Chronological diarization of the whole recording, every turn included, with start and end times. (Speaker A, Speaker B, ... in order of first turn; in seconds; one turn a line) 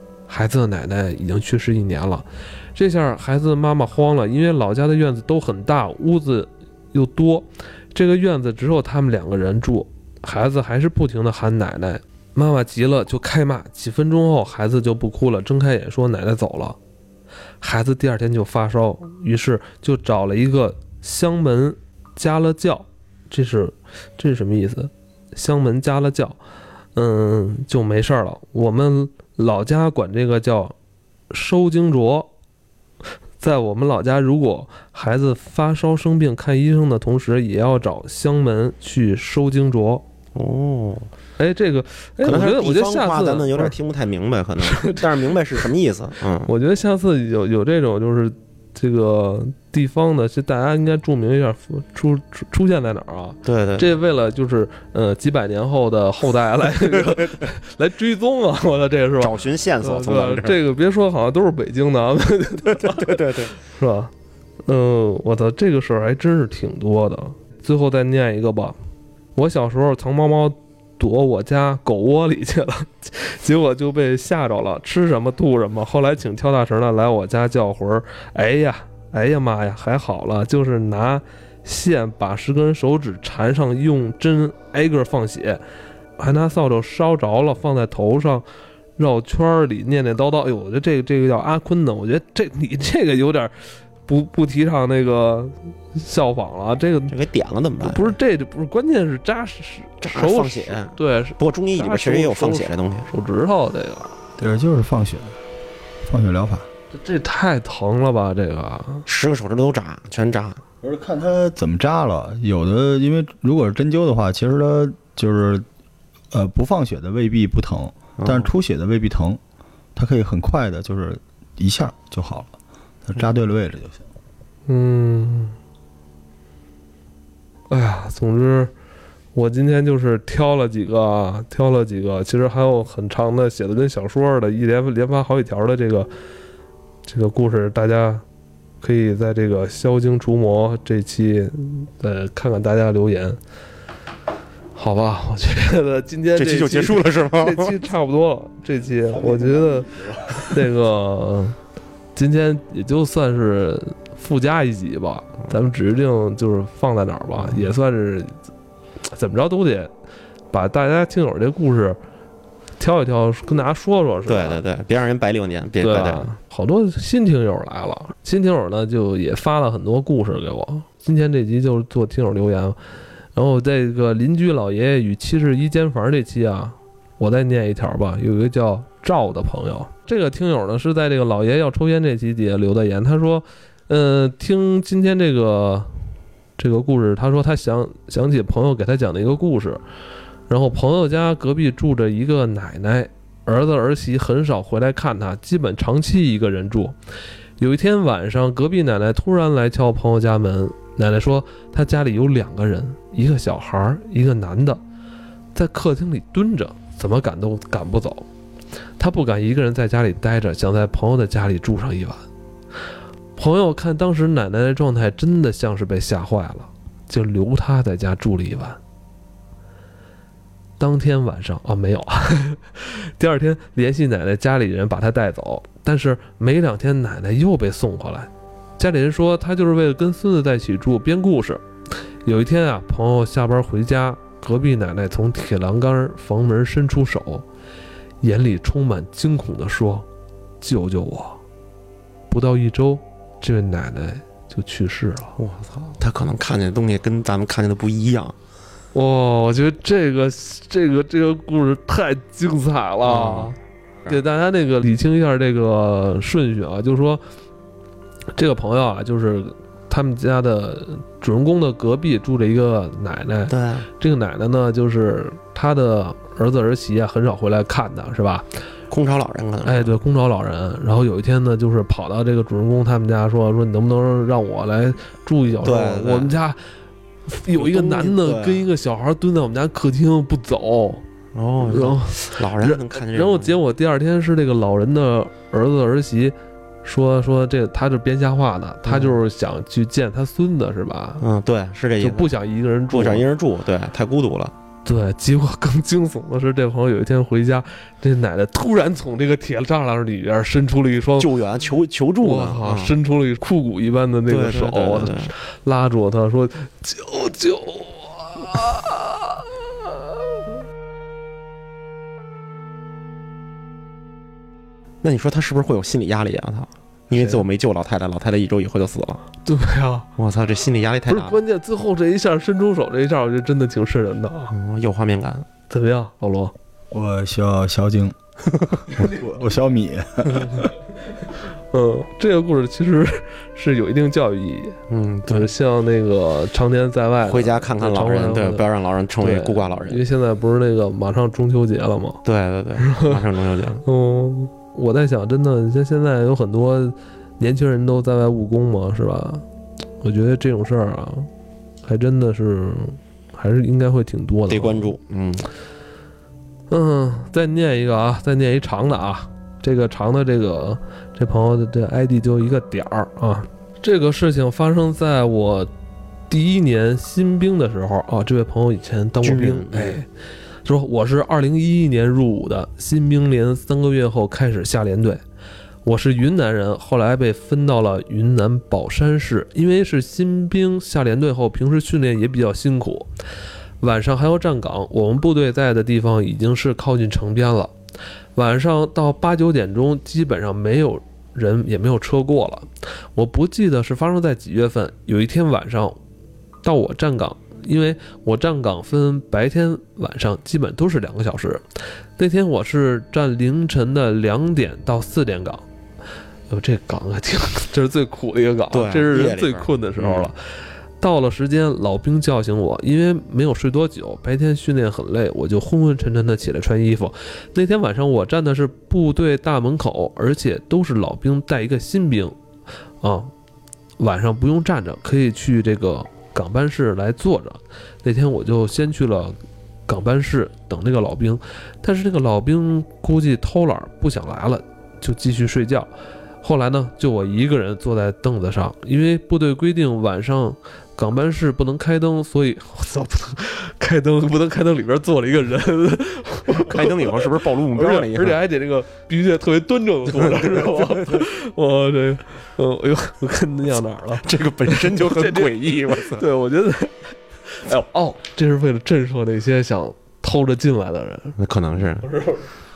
Speaker A: 0.3-16.8
Speaker A: 17.6-26.4
Speaker A: 26.9-30.7
Speaker A: 31.3-32.3
Speaker A: 33.4-40.0
Speaker B: 40.3-41.1
Speaker A: 41.4-43.8
Speaker B: 42.2-46.5
Speaker A: 44.6-45.7
Speaker A: 46.5-64.1
Speaker B: 53.4-53.9
Speaker B: 59.2-60.6
Speaker B: 62.7-63.5
Speaker A: 64.7-68.8
Speaker A: 69.3-85.6
Speaker A: 86.2-88.4
Speaker A: 89.0-93.5
Speaker A: 94.0-97.1
Speaker B: 97.1-98.2
Speaker A: 97.8-104.1
Speaker B: 100.0-103.1
Speaker C: 104.4-105.3
Speaker C: 106.0-106.7
Speaker A: 106.9-109.0
Speaker B: 109.0-110.6
Speaker C: 110.8-115.6
Speaker C: 116.3-119.4
Speaker B: 118.2-118.5
Speaker C: 120.0-122.5
Speaker C: 123.0-124.0
Speaker A: 124.7-125.5
Speaker A: 127.7-128.7
Speaker A: 129.3-136.1
Speaker A: 137.1-138.2
Speaker A: 138.8-143.4
Speaker A: 144.7-151.6
Speaker B: 146.3-147.8
Speaker C: 149.1-150.5
Speaker A: 152.1-158.4
Speaker A: 159.1-159.9
Speaker A: 160.5-162.0
Speaker A: 162.8-164.6
Speaker B: 164.3-166.3
Speaker A: 165.8-172.8
Speaker A: 173.3-185.9
Speaker A: 186.6-189.8
Speaker A: 190.5-196.9
Speaker A: 197.6-204.8
Speaker A: 205.5-208.3
Speaker A: 209.0-212.2
Speaker A: 213.3-218.8
Speaker A: 220.8-231.6
Speaker A: 232.2-237.4
Speaker A: 238.2-240.1
Speaker A: 240.6-241.4
Speaker A: 242.3-245.4
Speaker B: 245.4-248.3
Speaker A: 248.9-253.6
Speaker B: 253.0-254.2
Speaker A: 254.1-257.2
Speaker A: 258.3-268.4
Speaker B: 263.5-263.9
Speaker B: 268.9-269.9
Speaker A: 269.6-276.6
Speaker B: 275.6-276.3
Speaker A: 277.3-281.0
Speaker B: 277.5-278.7
Speaker B: 281.3-283.6
Speaker A: 281.6-291.2
Speaker B: 288.8-289.2
Speaker B: 291.2-292.3
Speaker A: 292.0-293.2
Speaker B: 292.9-294.5
Speaker A: 294.8-301.3
Speaker B: 301.2-302.9
Speaker A: 302.2-310.0
Speaker B: 304.3-305.3
Speaker B: 315.0-319.2
Speaker A: 317.1-317.4
Speaker A: 319.4-320.1
Speaker B: 320.2-321.4
Speaker A: 321.1-324.5
Speaker B: 324.5-325.5
Speaker A: 325.7-326.5
Speaker C: 326.9-328.1
Speaker B: 328.5-328.8
Speaker C: 328.9-330.7
Speaker A: 331.7-338.6
Speaker B: 334.9-335.5
Speaker B: 337.2-340.0
Speaker A: 339.2-342.2
Speaker B: 342.2-343.8
Speaker A: 342.8-343.2
Speaker A: 343.8-349.4
Speaker A: 350.0-351.3
Speaker A: 351.8-354.9
Speaker B: 354.5-355.5
Speaker A: 356.7-365.7
Speaker A: 366.3-370.1
Speaker B: 369.2-370.0
Speaker A: 370.6-375.2
Speaker A: 375.8-383.1
Speaker A: 383.8-387.7
Speaker A: 388.4-396.0
Speaker A: 396.6-401.6
Speaker A: 402.2-405.6
Speaker A: 406.5-410.4
Speaker B: 408.7-410.3
Speaker A: 411.0-422.3
Speaker A: 423.0-423.3
Speaker A: 424.0-429.4
Speaker A: 429.9-435.9
Speaker A: 436.4-461.4
Speaker B: 446.5-448.4
Speaker B: 450.1-451.2
Speaker B: 454.2-456.2
Speaker B: 461.4-462.1
Speaker A: 462.0-462.4